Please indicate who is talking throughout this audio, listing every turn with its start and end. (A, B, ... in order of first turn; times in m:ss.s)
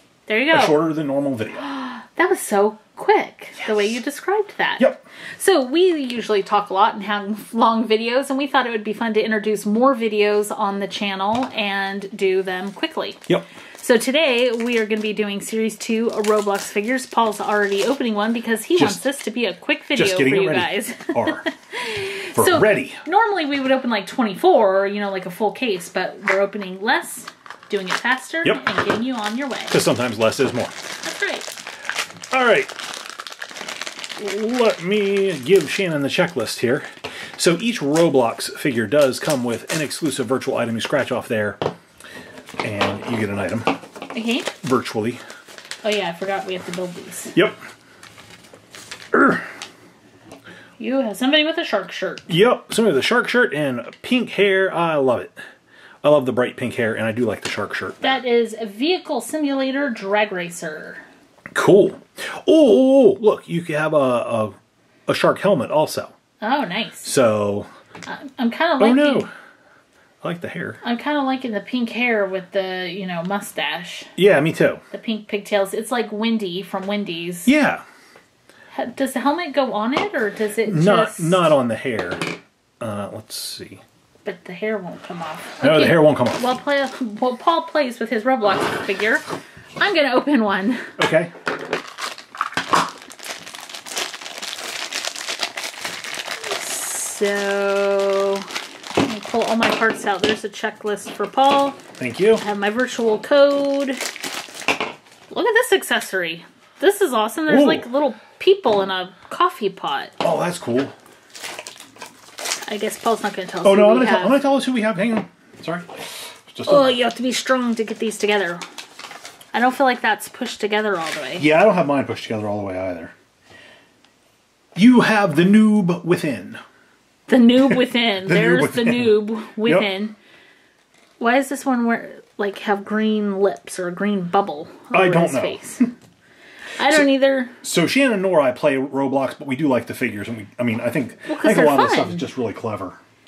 0:00.3-0:00.8 A
0:00.5-0:01.7 B
0:01.6-0:13.2 A
0:03.6-0:03.9 B
0:04.8-0:05.0 B
0:13.8-0:29.7 A
0:18.7-0:19.0 B
0:19.9-0:21.4 B
0:22.3-0:23.0 B
0:29.7-0:30.7 B
0:31.0-0:31.5 A
0:32.3-0:32.7 B
0:34.2-0:41.6 B
0:42.6-0:43.7 B
0:44.1-0:44.5 A
0:44.6-0:45.2 B
0:45.8-0:47.3 A
0:49.1-0:49.4 B
0:50.8-0:52.2 A
0:52.3-0:55.3 B
0:56.0-0:58.2 B
0:58.0-1:01.0 A
1:01.5-1:04.5 B
1:05.1-1:06.1 B
1:06.4-1:07.1 A
1:07.0-1:07.7 B
1:08.0-1:09.3 A
1:08.8-1:09.3 B
1:10.2-1:10.8 B
1:10.8-1:14.1 A
1:14.2-1:14.8 B
1:14.9-1:17.5 A
1:17.4-1:17.8 B
1:18.7-1:21.4 A
1:20.6-1:23.8 B
1:24.2-1:29.2 A
1:25.6-1:26.5 B
1:29.8-1:30.9 A
1:31.0-1:31.3 B
1:36.4-1:41.8 A
1:42.0-1:42.4 B
1:42.4-1:44.0 A
1:45.3-1:50.1 A
1:47.5-1:47.9 B
1:50.2-1:50.9 B
1:52.6-1:54.4 A
1:53.6-1:57.0 B
1:56.6-1:58.6 A
1:59.5-2:01.5 A
2:01.4-2:03.1 B
2:04.7-2:06.6 B
2:07.3-2:10.2 A
2:08.1-2:09.9 B
2:11.2-2:15.9 A
2:14.9-2:15.7 B
2:16.8-2:17.6 A
2:17.6-2:23.0 B
2:21.3-2:22.3 A